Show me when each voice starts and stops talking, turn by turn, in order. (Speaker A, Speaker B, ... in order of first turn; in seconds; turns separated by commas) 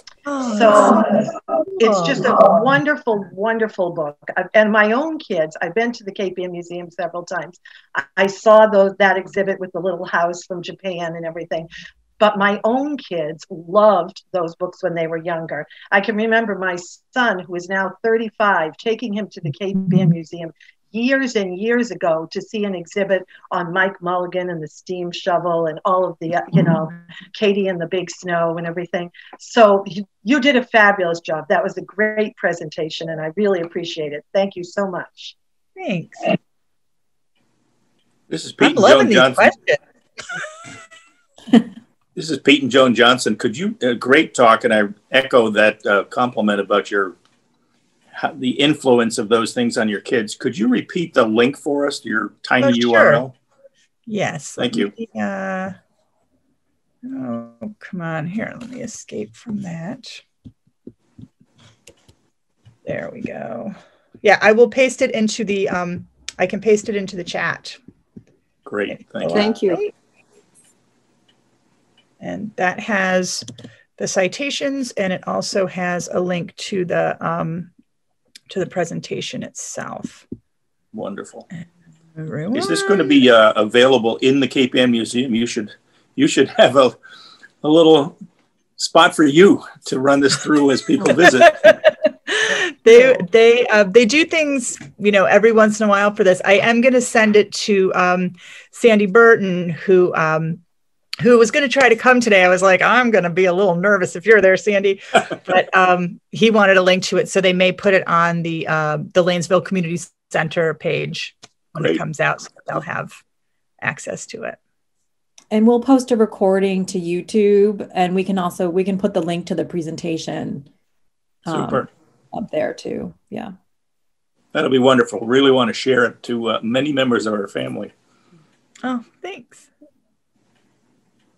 Speaker A: 0.2-1.1, Speaker B: 0.5-1.0, Speaker B: 1.8-11.7, Speaker B: 12.2-35.3, Speaker A: 35.8-36.2, Speaker C: 38.3-39.5, Speaker A: 38.6-39.8, Speaker C: 42.1-47.1, Speaker C: 48.1-53.3, Speaker A: 52.6-53.2, Speaker A: 54.1-55.7, Speaker C: 54.6-54.9, Speaker A: 57.0-60.2, Speaker A: 62.8-67.8, Speaker C: 68.6-69.5, Speaker A: 68.9-69.9, Speaker D: 69.3-69.8, Speaker A: 72.2-73.4, Speaker A: 74.0-77.7, Speaker A: 78.5-80.2, Speaker C: 80.9-81.5, Speaker A: 82.2-83.1, Speaker C: 82.5-87.0, Speaker C: 87.6-88.2, Speaker C: 88.8-91.7, Speaker A: 91.6-100.6, Speaker A: 101.2-113.1, Speaker A: 113.8-114.6, Speaker D: 115.5-120.7, Speaker D: 121.5-123.5, Speaker C: 121.5-121.9, Speaker C: 124.5-127.9, Speaker A: 128.8-129.7